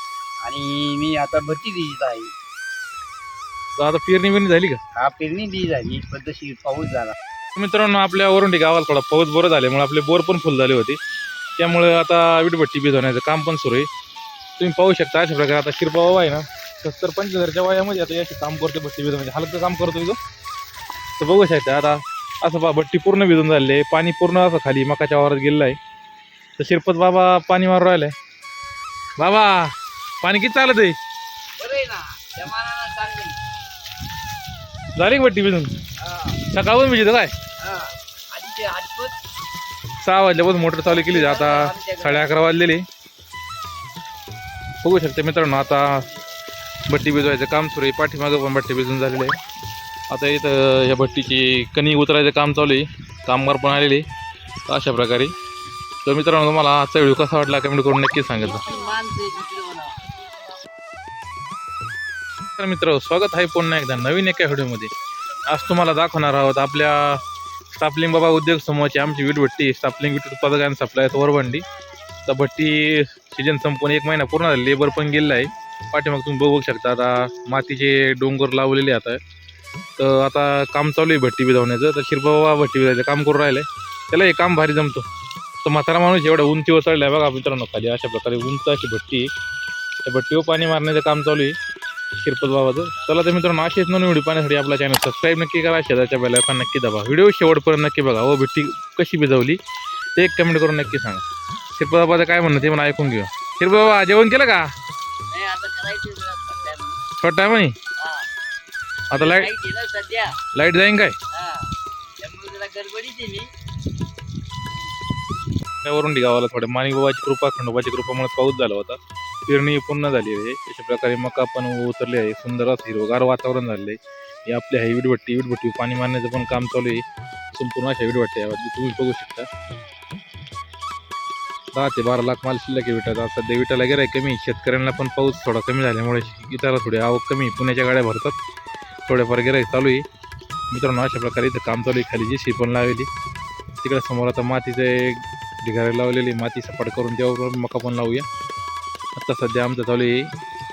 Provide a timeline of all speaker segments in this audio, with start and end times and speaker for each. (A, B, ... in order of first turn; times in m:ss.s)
0:00.4-0:02.3 A
0:03.8-0:04.8 B
0:05.0-0:07.1 A
0:07.5-0:11.0 B
0:11.6-0:13.9 B
0:14.6-0:20.2 B
0:21.2-0:25.8 B
0:26.6-0:28.1 B
0:29.2-0:31.0 B
0:31.6-0:33.4 A
0:35.0-0:35.8 B
0:36.0-0:36.4 A
0:36.4-0:37.3 B
0:37.6-0:39.2 A
0:40.0-0:42.8 B
0:40.8-0:42.3 A
0:44.8-0:46.1 B
0:46.8-0:49.4 B
0:50.1-0:54.0 B
0:54.7-0:55.3 B
0:56.0-0:58.7 B
0:58.4-1:00.2 A
1:02.6-1:04.9 B
1:05.5-1:11.6 B
1:12.3-1:19.2 B
1:20.0-1:25.1 B
1:25.6-1:29.3 B
1:30.0-1:31.6 B
1:32.2-1:39.6 B
1:40.2-1:44.7 B
1:45.3-1:47.0 A
1:47.2-1:47.8 B
1:48.0-1:48.3 A
1:49.1-1:49.5 B
1:49.1-1:50.4 A
1:50.5-1:51.2 B
1:51.3-1:51.7 A
1:52.2-1:53.5 A
1:55.8-2:09.5 B
2:11.7-2:18.4 B
2:19.1-2:20.0 B
2:20.7-2:23.1 B
2:23.8-2:28.2 B
2:29.2-2:30.3 B